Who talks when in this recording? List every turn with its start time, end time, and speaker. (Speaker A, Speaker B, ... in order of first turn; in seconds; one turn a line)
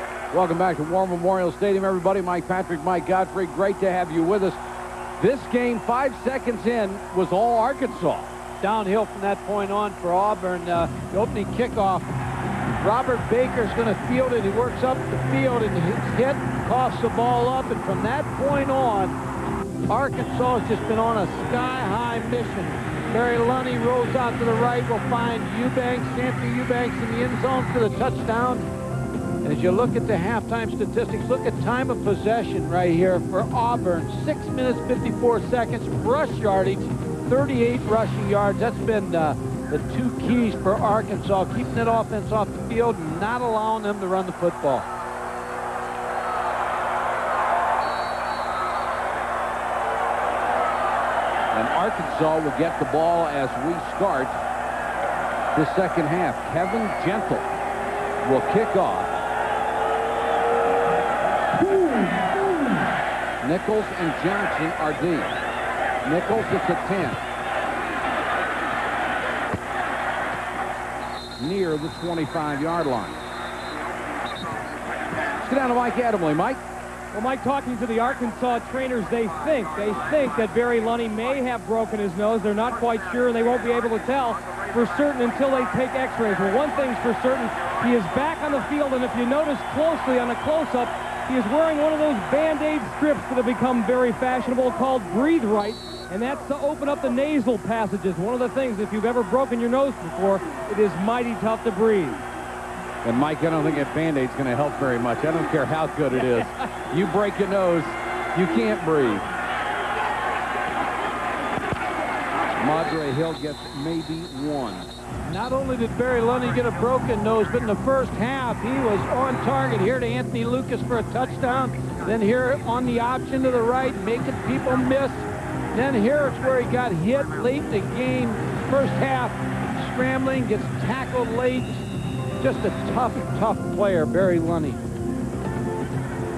Speaker A: 0.3-4.6
Speaker A: 5.2-8.3
Speaker B: 8.6-12.1
Speaker B: 12.8-19.2
Speaker B: 19.9-28.7
Speaker B: 29.4-44.9
Speaker A: 51.5-54.4
Speaker A: 55.5-57.5
Speaker A: 58.2-59.1
Speaker A: 63.4-65.3
Speaker A: 66.0-67.2
Speaker A: 71.4-73.2
Speaker A: 75.2-76.6
Speaker C: 77.1-102.2
Speaker A: 103.0-109.2
Speaker A: 112.6-114.9
Speaker B: 115.2-131.8
Speaker B: 132.4-134.8